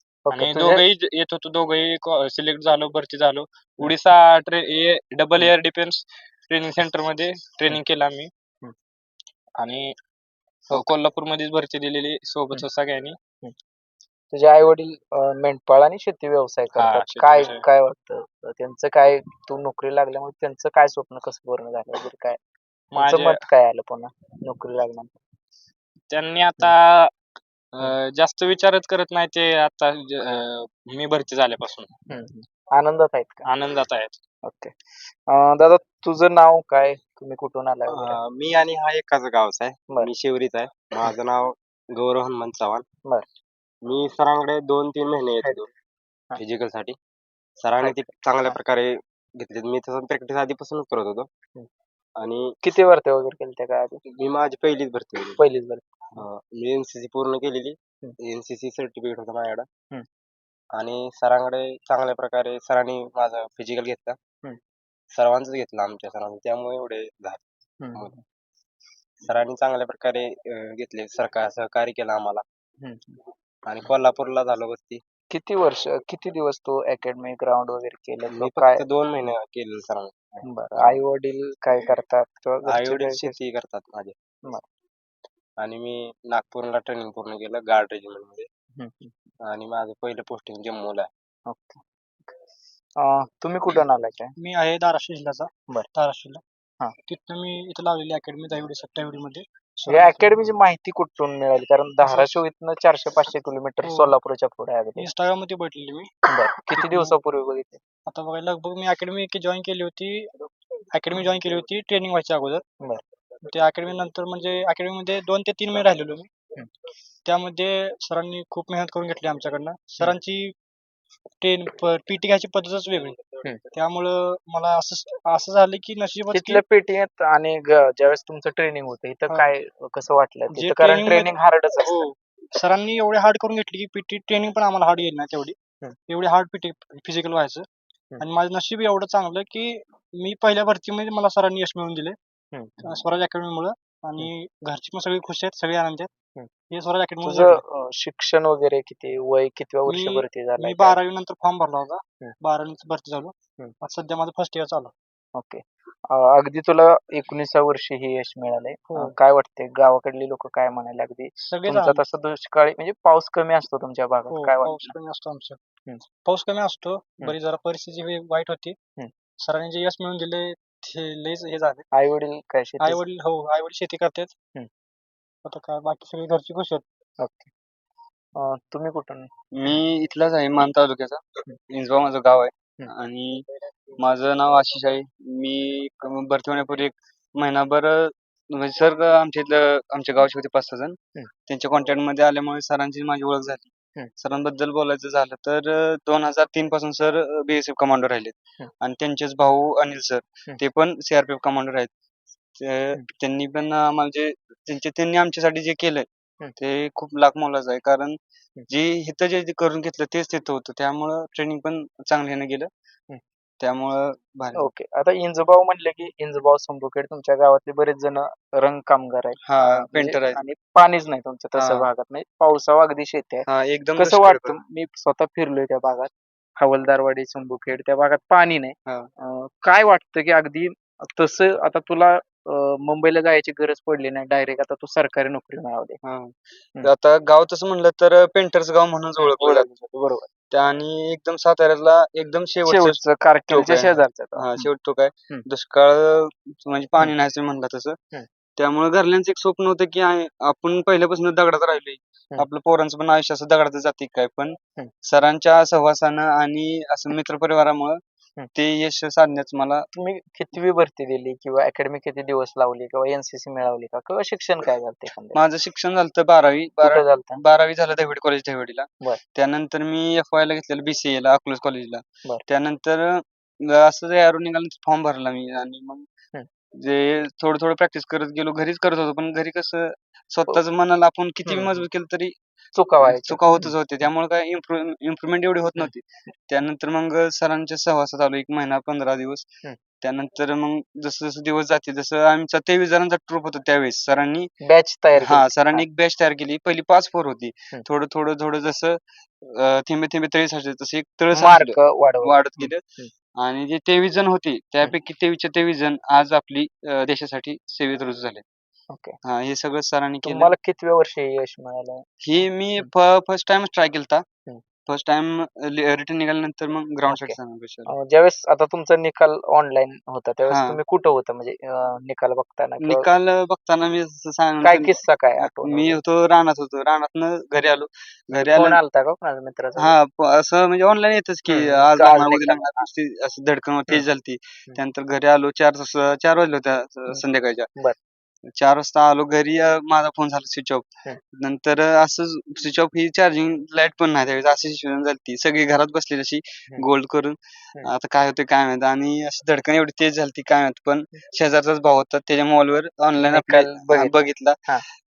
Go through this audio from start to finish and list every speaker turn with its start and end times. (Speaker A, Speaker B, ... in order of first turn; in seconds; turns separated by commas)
Speaker A: 0.3-0.8, Speaker B: 0.3-8.3, Speaker B: 9.6-9.9, Speaker B: 10.7-13.2, Speaker A: 14.3-22.4, Speaker B: 16.8-17.6, Speaker B: 22.9-23.4, Speaker A: 23.0-25.1, Speaker B: 26.1-27.1, Speaker B: 27.7-31.9, Speaker A: 32.1-33.5, Speaker B: 33.5-34.2, Speaker A: 34.4-34.7, Speaker A: 35.3-38.2, Speaker C: 37.9-42.9, Speaker C: 43.9-45.7, Speaker C: 46.4-47.0, Speaker C: 47.6-51.3, Speaker A: 47.8-48.6, Speaker C: 52.2-52.5, Speaker A: 52.6-54.0, Speaker C: 54.1-55.4, Speaker A: 55.4-56.2, Speaker C: 56.2-59.7, Speaker C: 60.8-64.2, Speaker C: 65.1-67.4, Speaker A: 67.8-68.2, Speaker C: 69.2-72.4, Speaker A: 72.8-73.2, Speaker C: 73.7-75.0, Speaker A: 75.3-78.8, Speaker C: 78.3-81.0, Speaker A: 80.4-83.4, Speaker C: 82.7-84.2, Speaker C: 85.6-88.5, Speaker A: 88.8-89.1, Speaker C: 89.4-91.1, Speaker A: 91.5-92.3, Speaker A: 93.0-94.3, Speaker D: 94.4-96.4, Speaker D: 97.1-100.4, Speaker A: 99.9-105.1, Speaker D: 102.0-102.4, Speaker D: 103.8-104.1, Speaker D: 105.0-106.1, Speaker A: 106.3-107.8, Speaker D: 106.8-107.2, Speaker D: 108.1-110.3, Speaker D: 110.9-112.6, Speaker D: 113.4-116.3, Speaker D: 117.3-120.5, Speaker D: 121.4-123.2, Speaker D: 123.7-126.6, Speaker A: 126.3-132.1, Speaker D: 130.5-135.6, Speaker D: 136.1-137.7, Speaker D: 138.2-142.2, Speaker A: 142.5-142.9, Speaker D: 142.8-146.1, Speaker D: 146.7-147.6, Speaker A: 147.2-151.0, Speaker D: 149.9-154.9, Speaker A: 155.3-165.0, Speaker D: 161.5-162.0, Speaker D: 164.3-165.6, Speaker D: 166.2-168.8, Speaker D: 169.4-171.9, Speaker A: 171.9-173.0, Speaker D: 172.8-174.3, Speaker D: 175.4-176.8, Speaker A: 177.2-177.5, Speaker A: 178.4-179.3, Speaker E: 179.5-183.5, Speaker E: 184.0-201.9, Speaker E: 202.6-208.2, Speaker E: 208.7-212.7, Speaker E: 213.6-214.7, Speaker A: 214.6-236.0, Speaker E: 219.4-220.4, Speaker E: 221.6-221.9, Speaker E: 223.5-224.6, Speaker E: 236.0-239.8, Speaker A: 239.2-240.2, Speaker E: 240.5-248.0, Speaker A: 242.7-244.7, Speaker E: 248.6-258.0, Speaker E: 258.5-259.9, Speaker A: 259.9-265.4, Speaker E: 265.4-276.1, Speaker A: 266.8-267.4, Speaker E: 276.8-282.4, Speaker A: 281.5-281.9, Speaker A: 282.8-283.7, Speaker E: 283.0-289.5, Speaker E: 290.0-294.5, Speaker A: 294.6-295.9, Speaker E: 295.2-302.8, Speaker A: 301.3-303.1, Speaker E: 303.4-308.4, Speaker E: 309.2-310.5, Speaker A: 310.2-312.1, Speaker E: 312.2-314.2, Speaker E: 314.9-317.9, Speaker A: 317.1-323.1, Speaker E: 320.5-320.8, Speaker E: 322.8-328.8, Speaker A: 324.6-326.0, Speaker A: 328.3-329.9, Speaker E: 329.8-337.7, Speaker A: 331.5-332.7, Speaker E: 338.6-354.6, Speaker A: 353.2-354.1